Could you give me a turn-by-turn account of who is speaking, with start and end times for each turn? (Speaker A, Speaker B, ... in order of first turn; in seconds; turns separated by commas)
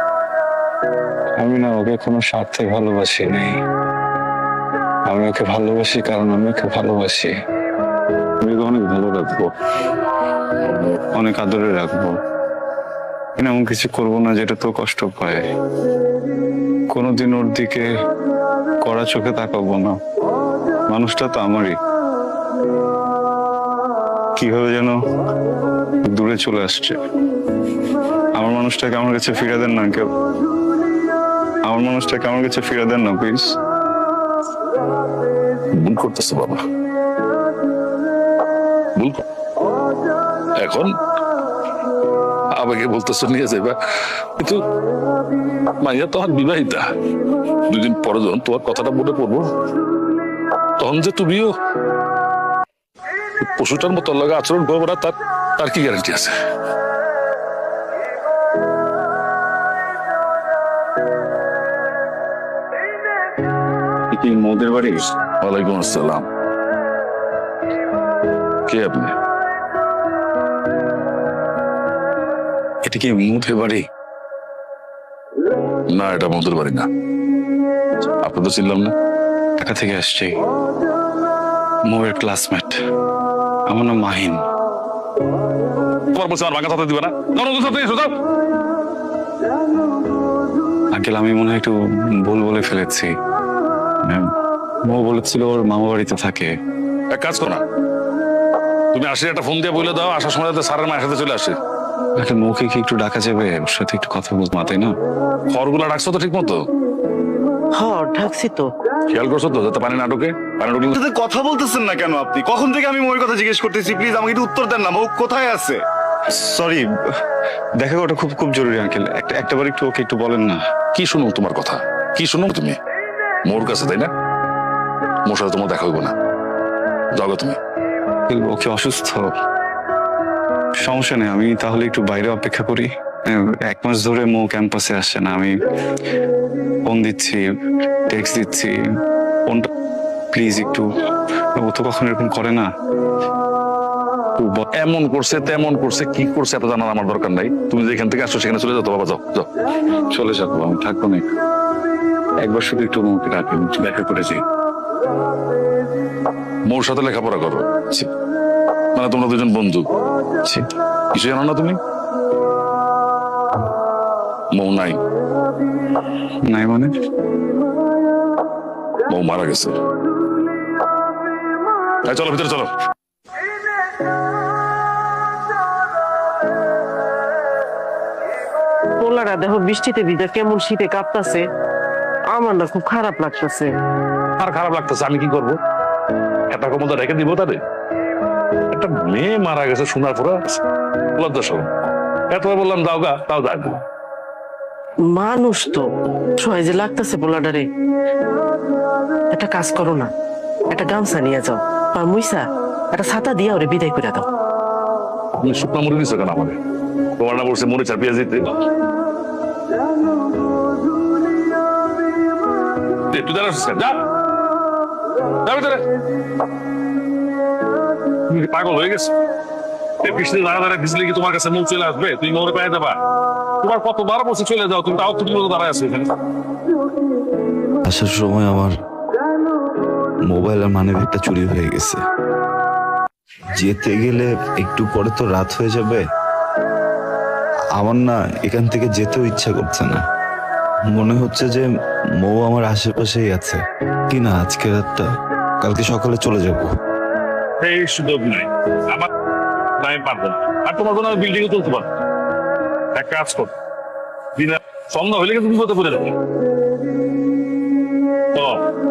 Speaker A: 1.4-3.5, Speaker A: 5.1-7.3, Speaker A: 8.4-9.5, Speaker A: 11.1-12.1, Speaker A: 13.4-15.4, Speaker A: 16.9-17.8, Speaker A: 18.8-20.0, Speaker A: 20.9-21.7, Speaker A: 24.4-24.9, Speaker A: 26.1-27.0, Speaker A: 28.4-30.1, Speaker A: 31.6-33.5, Speaker B: 35.8-36.6, Speaker B: 39.0-39.2, Speaker B: 40.6-40.9, Speaker B: 42.6-43.8, Speaker B: 45.8-46.9, Speaker B: 47.7-49.5, Speaker B: 50.8-51.5, Speaker B: 53.4-56.3, Speaker A: 64.1-65.0, Speaker B: 65.4-66.2, Speaker B: 68.7-69.1, Speaker A: 72.8-73.8, Speaker B: 75.9-76.9, Speaker B: 78.2-78.9, Speaker A: 79.6-80.4, Speaker A: 81.9-82.8, Speaker A: 83.7-84.4, Speaker B: 86.1-88.1, Speaker A: 90.9-93.1, Speaker A: 94.8-96.5, Speaker B: 97.1-97.6, Speaker B: 98.9-101.6, Speaker A: 102.2-104.9, Speaker B: 105.5-106.6, Speaker C: 107.7-108.7, Speaker B: 109.1-111.0, Speaker D: 110.9-115.8, Speaker A: 116.4-116.8, Speaker A: 117.8-120.6, Speaker B: 120.9-122.8, Speaker B: 123.5-124.1, Speaker B: 125.3-126.1, Speaker B: 127.1-127.6, Speaker A: 128.3-129.3, Speaker A: 130.8-135.5, Speaker A: 136.8-137.4, Speaker A: 138.1-138.7, Speaker A: 140.3-140.9, Speaker A: 141.5-142.7, Speaker A: 144.4-144.6, Speaker B: 144.8-149.5, Speaker A: 150.1-151.3, Speaker A: 152.4-154.4, Speaker B: 156.7-157.6, Speaker B: 158.9-159.8, Speaker B: 161.1-161.8, Speaker B: 164.5-165.0, Speaker A: 166.4-166.9, Speaker B: 169.1-169.7, Speaker B: 172.0-172.7, Speaker C: 179.0-181.4, Speaker C: 182.3-183.7, Speaker B: 184.4-185.6, Speaker B: 186.5-187.6, Speaker B: 188.7-190.4, Speaker B: 191.2-191.7, Speaker B: 192.3-193.8, Speaker C: 195.1-197.7, Speaker C: 199.3-200.1, Speaker C: 200.7-204.3, Speaker B: 205.4-206.6, Speaker B: 207.2-208.5, Speaker B: 213.1-214.0, Speaker B: 215.4-215.8, Speaker B: 218.3-219.1, Speaker B: 220.0-223.0, Speaker B: 223.6-226.1, Speaker E: 227.8-228.7, Speaker E: 230.3-232.0, Speaker E: 233.6-236.0, Speaker E: 237.8-240.0, Speaker E: 240.9-241.7, Speaker E: 242.2-243.6, Speaker E: 244.1-245.1, Speaker E: 245.6-246.7, Speaker B: 247.6-249.1, Speaker B: 249.8-251.9, Speaker B: 252.9-253.5, Speaker B: 254.3-256.1, Speaker B: 258.3-258.6